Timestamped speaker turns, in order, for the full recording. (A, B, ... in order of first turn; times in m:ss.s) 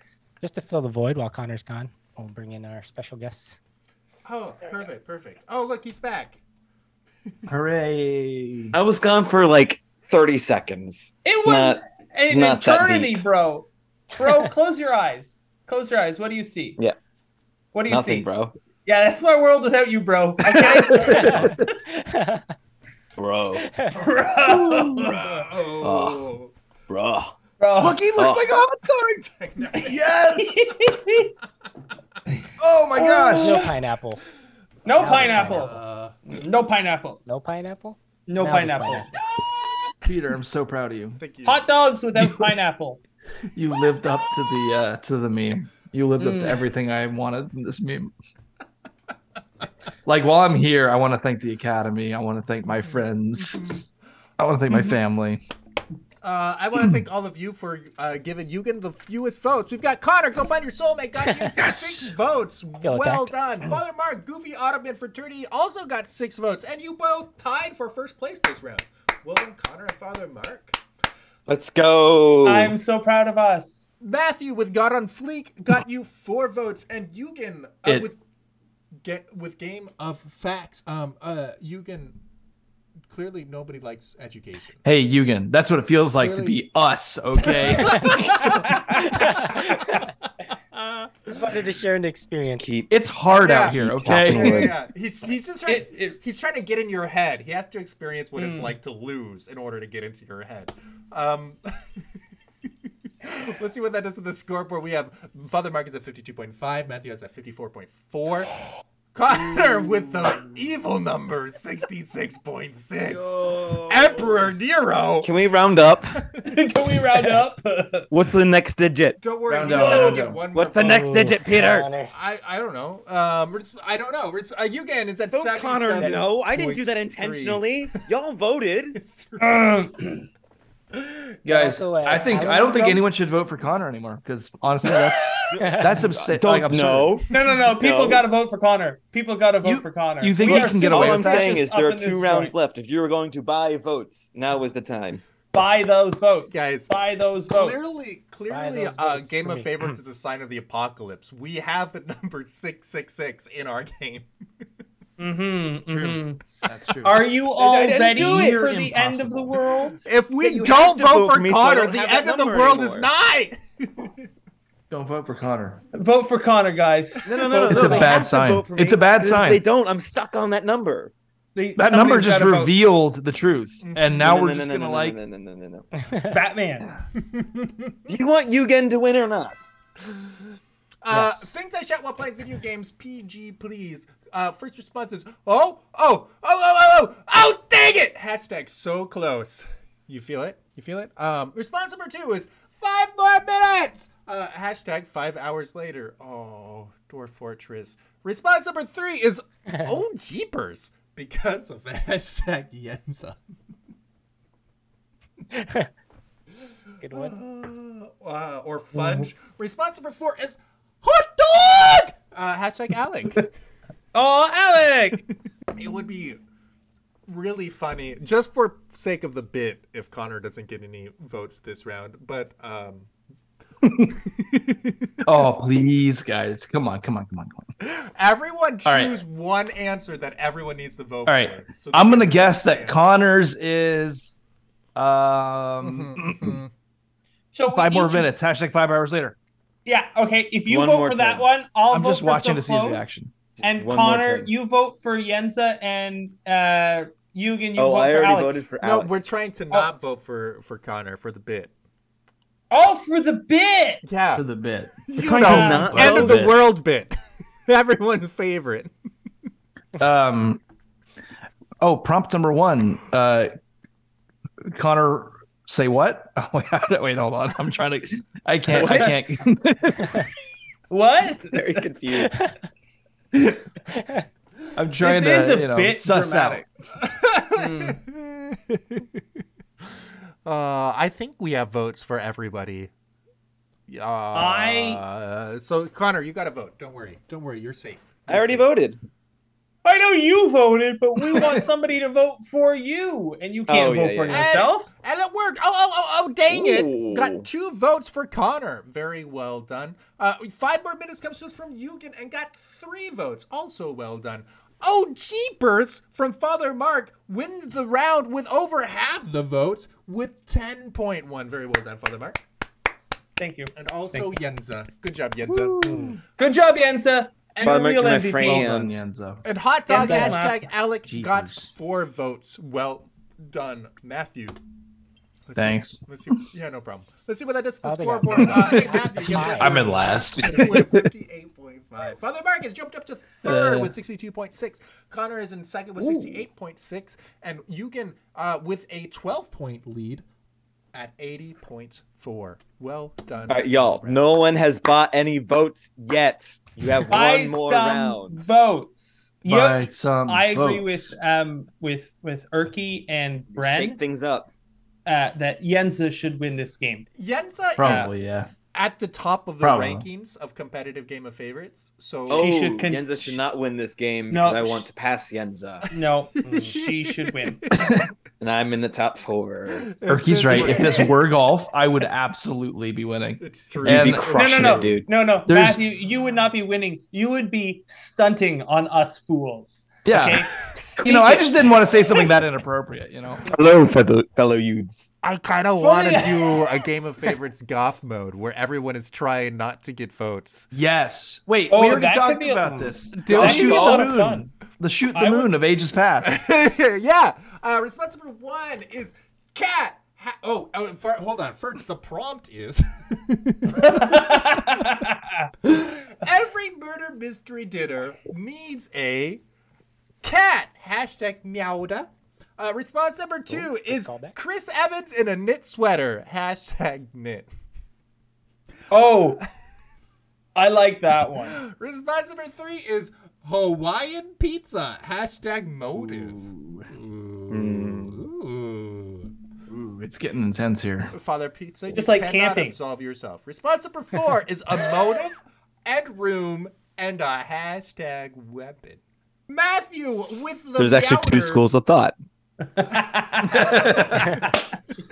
0:00.4-0:03.6 A
0:04.2-0:06.4 B
0:07.5-0:08.7 C
0:08.7-0:13.2 D
0:11.2-0:16.8 E
0:17.7-0:18.3 E
0:17.9-0:18.5 D
0:18.8-0:21.6 E
0:20.6-0:21.5 C
0:22.0-0:22.4 A
0:23.2-0:23.7 D
0:23.6-0:23.9 A
0:23.9-0:25.2 E
0:24.4-0:25.1 C
0:24.9-0:26.5 B
0:25.8-0:26.3 D
0:26.9-0:27.3 D
0:27.6-0:28.0 E
0:27.8-0:30.9 C
0:28.2-0:28.5 D
0:29.4-0:29.9 B
0:30.3-0:31.3 E
0:32.6-0:33.7 C
0:32.9-0:33.7 E
0:33.4-0:34.2 A
0:34.8-0:35.7 E
0:34.9-0:35.8 A
0:35.0-0:36.2 B
0:36.3-0:37.2 E
0:37.2-0:39.1 A
0:38.3-0:39.1 E
0:40.0-0:41.2 C
0:41.2-0:41.7 B
0:41.4-0:43.0 E
0:42.1-0:42.6 C
0:43.5-0:48.1 C
0:46.2-0:46.6 E
0:50.0-0:53.8 C
0:54.4-0:55.4 C
0:56.2-1:10.8 B
1:01.6-1:02.1 C
1:02.8-1:03.7 A
1:11.5-1:12.8 D
1:12.4-1:13.9 E
1:14.0-1:18.2 B
1:19.0-1:22.2 B
1:23.1-1:24.8 B
1:24.8-1:28.6 C
1:26.2-1:26.6 B
1:27.4-1:30.1 B
1:29.2-1:29.5 A
1:30.7-1:31.6 B
1:31.3-1:32.8 A
1:32.4-1:32.9 D
1:32.9-1:34.7 C
1:33.3-1:41.6 B
1:33.6-1:34.7 D
1:35.6-1:36.2 E
1:38.4-1:38.8 E
1:43.2-1:48.5 B
1:49.1-1:55.4 B
1:53.0-1:54.5 C
1:55.2-1:56.2 D
1:55.9-1:56.6 B
1:56.4-1:58.1 E
1:58.1-2:01.9 D
1:59.2-2:01.3 B
1:59.5-2:00.4 C
2:00.8-2:02.1 A
2:02.0-2:07.8 B
2:05.3-2:09.0 D
2:08.9-2:09.8 B
2:09.4-2:10.2 E
2:11.4-2:17.2 C
2:11.5-2:13.0 A
2:15.5-2:18.2 D
2:15.6-2:16.0 A
2:17.3-2:22.5 E
2:19.6-2:21.6 C
2:20.4-2:25.2 D
2:25.5-2:27.8 E
2:26.5-2:26.9 B
2:27.5-2:34.3 B
2:28.5-2:30.0 A
2:35.2-2:36.4 E
2:35.9-2:37.3 C
2:37.0-2:40.0 E
2:37.6-2:38.8 D
2:37.8-2:39.6 C
2:40.0-2:44.2 B
2:40.4-2:43.1 D
2:44.9-2:45.8 C
2:45.9-2:48.2 E
2:47.2-2:51.1 D
2:47.6-2:49.6 C
2:51.5-2:52.8 E
2:51.8-2:55.2 C
2:53.8-2:54.3 B
2:54.2-2:55.8 D
2:56.3-2:56.8 E
2:57.2-2:57.9 B
2:58.1-2:59.7 D
3:01.0-3:23.4 B
3:01.1-3:01.5 A
3:25.6-3:25.9 A
3:27.0-3:27.4 A
3:27.1-3:33.5 B
3:28.9-3:29.3 E
3:34.1-3:35.2 E
3:35.8-3:36.4 B
3:37.3-3:43.1 B
3:43.8-3:44.1 C
3:44.1-3:45.1 B
3:45.2-3:47.7 C
3:47.8-3:53.0 B
3:48.8-3:49.2 C
3:51.2-3:54.3 C
3:54.9-3:56.6 C
3:55.8-3:56.7 B
3:57.5-3:58.3 E
3:57.7-3:59.4 C
3:59.8-4:08.5 E
4:00.6-4:01.4 D
4:01.9-4:03.3 C
4:03.6-4:04.5 D
4:07.8-4:09.1 D
4:08.8-4:11.7 B
4:12.7-4:14.0 E
4:14.0-4:14.4 B
4:14.4-4:14.9 C
4:15.1-4:17.2 B
4:15.2-4:16.6 D
4:15.4-4:16.1 E
4:15.5-4:16.5 C
4:17.7-4:18.9 B
4:20.0-4:20.6 C
4:21.8-4:23.5 C
4:24.7-4:30.3 C
4:28.7-4:29.2 D
4:30.9-4:31.8 E
4:31.5-4:32.4 D
4:33.3-4:33.6 C
4:34.7-4:36.6 C
4:35.0-4:36.6 E
4:37.0-4:39.0 B
4:37.6-4:38.0 E
4:40.4-4:42.9 B
4:43.9-4:48.7 B
4:44.3-4:45.0 E
4:48.3-4:49.0 D
4:49.8-4:54.9 E
4:53.7-4:54.5 D
4:54.3-5:12.4 B
4:56.5-4:57.4 D
5:13.4-5:14.3 E
5:13.8-5:16.1 B
5:15.8-5:16.2 A
5:16.4-5:18.7 E
5:17.5-5:18.1 B
5:17.6-5:19.0 D
5:18.4-5:19.4 C
5:19.4-5:24.6 B
5:19.9-5:20.6 E
5:19.9-5:20.4 A
5:21.0-5:21.7 C
5:25.4-5:40.2 B
5:25.6-5:26.0 C
5:27.8-5:29.9 A
5:29.2-5:30.8 C
5:33.4-5:33.9 C
5:36.0-5:36.4 D
5:40.9-5:44.3 B
5:43.5-5:48.4 D
5:47.1-5:54.0 E
5:49.4-5:51.2 C
5:53.5-5:54.5 D
5:55.0-5:57.1 E
5:57.2-5:58.1 B
5:57.8-5:58.5 C
5:58.7-6:02.5 B
5:59.6-6:00.1 C
6:02.3-6:05.9 D
6:02.3-6:03.4 E
6:04.3-6:04.8 E
6:05.9-6:07.6 E
6:06.4-6:08.0 B
6:06.5-6:06.7 A
6:07.7-6:08.0 C
6:08.4-6:09.9 D
6:09.8-6:11.2 B
6:10.1-6:14.9 C
6:13.4-6:14.9 B
6:13.8-6:15.1 D
6:14.3-6:21.5 E
6:15.5-6:15.8 C
6:20.0-6:23.4 C
6:23.5-6:25.1 D
6:25.2-6:30.7 B
6:25.8-6:26.8 E
6:30.7-6:36.4 C
6:31.7-6:34.5 E
6:33.2-6:33.9 B
6:33.3-6:34.2 D
6:35.1-6:35.5 E
6:36.2-6:44.9 B
6:43.8-6:45.5 E
6:45.6-6:49.4 B
6:50.2-6:57.5 B
6:53.5-6:54.4 A
6:58.9-6:59.4 E
7:00.5-7:01.6 E
7:01.4-7:09.3 B
7:05.9-7:06.9 C
7:07.5-7:08.2 D
7:09.7-7:11.1 C
7:11.1-7:21.6 B
7:11.9-7:12.8 E
7:20.8-7:22.1 D
7:22.7-7:23.8 E
7:22.9-7:24.6 B
7:23.5-7:24.2 C